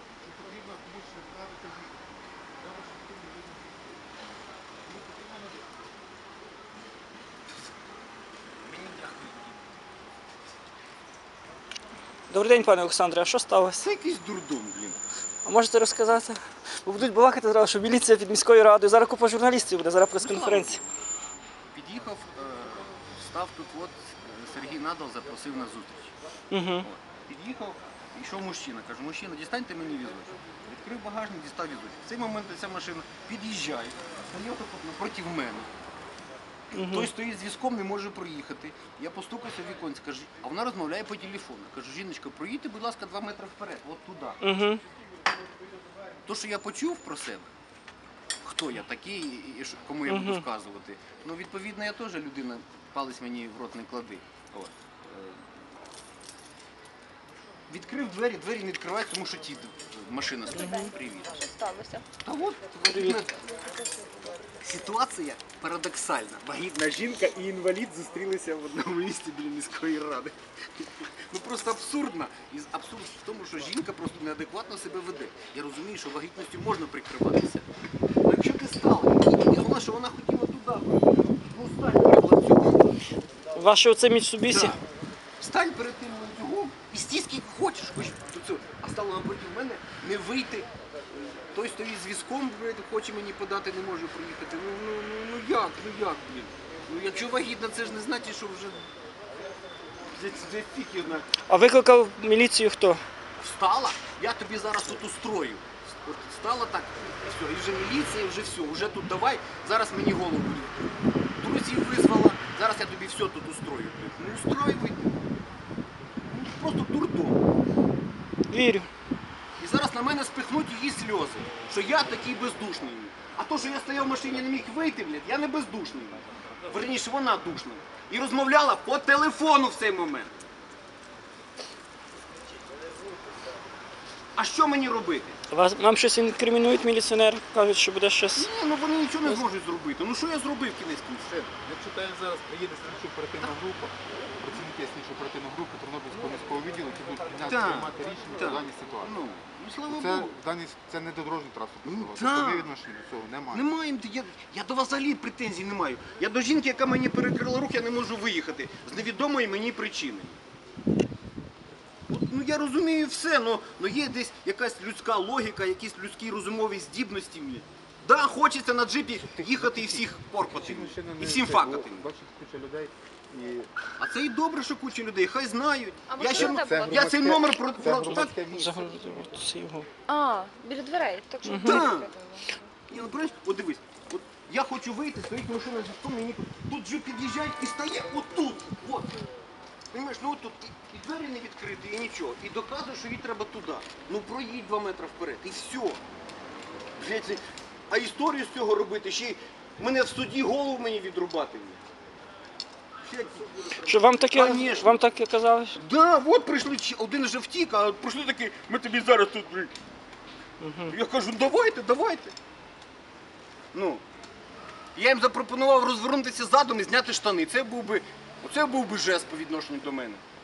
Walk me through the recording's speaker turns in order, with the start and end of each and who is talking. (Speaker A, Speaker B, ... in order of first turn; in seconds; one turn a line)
Speaker A: 0.2-1.9
Speaker A: 2.6-3.8
Speaker A: 4.9-5.6
Speaker B: 8.6-9.7
Speaker C: 12.3-13.8
Speaker B: 13.8-15.0
Speaker C: 15.4-20.8
Speaker B: 20.2-20.8
Speaker B: 21.7-26.1
Speaker C: 26.5-26.9
Speaker B: 26.8-35.7
Speaker B: 36.7-44.4
Speaker C: 36.7-37.1
Speaker C: 44.4-44.8
Speaker B: 46.2-47.5
Speaker B: 48.4-55.5
Speaker C: 50.1-50.4
Speaker B: 57.7-61.4
Speaker D: 60.5-62.0
Speaker C: 60.5-60.8
Speaker B: 62.2-63.3
Speaker C: 62.8-63.2
Speaker D: 63.5-64.2
Speaker B: 64.6-77.7
Speaker B: 78.2-82.9
Speaker C: 83.5-84.8
Speaker B: 84.5-84.8
Speaker B: 85.4-98.9
Speaker B: 100.1-101.3
Speaker C: 101.5-103.0
Speaker B: 103.4-115.1
Speaker B: 116.3-117.4
Speaker C: 118.5-118.9
Speaker B: 119.6-130.3
Speaker B: 134.3-135.4
Speaker C: 135.5-138.5
Speaker B: 138.3-141.4
Speaker A: 141.3-149.2
Speaker B: 147.4-150.4
Speaker A: 149.9-153.7
Speaker B: 151.8-152.7
Speaker B: 153.5-160.4
Speaker B: 162.1-172.1
Speaker A: 169.3-173.7
Speaker B: 174.0-178.6
Speaker D: 176.1-176.9
Speaker A: 176.2-179.3
Speaker C: 177.9-179.9
Speaker D: 180.1-182.7
Speaker C: 181.4-181.9
Speaker B: 181.6-182.1
Speaker B: 182.9-189.1
Speaker B: 189.9-196.0
Speaker B: 197.0-201.8
Speaker B: 203.0-205.0
Speaker C: 203.8-205.8
Speaker B: 205.8-209.7
Speaker C: 210.6-210.9
Speaker B: 210.9-212.3
Speaker B: 213.7-214.0
Speaker B: 214.9-220.2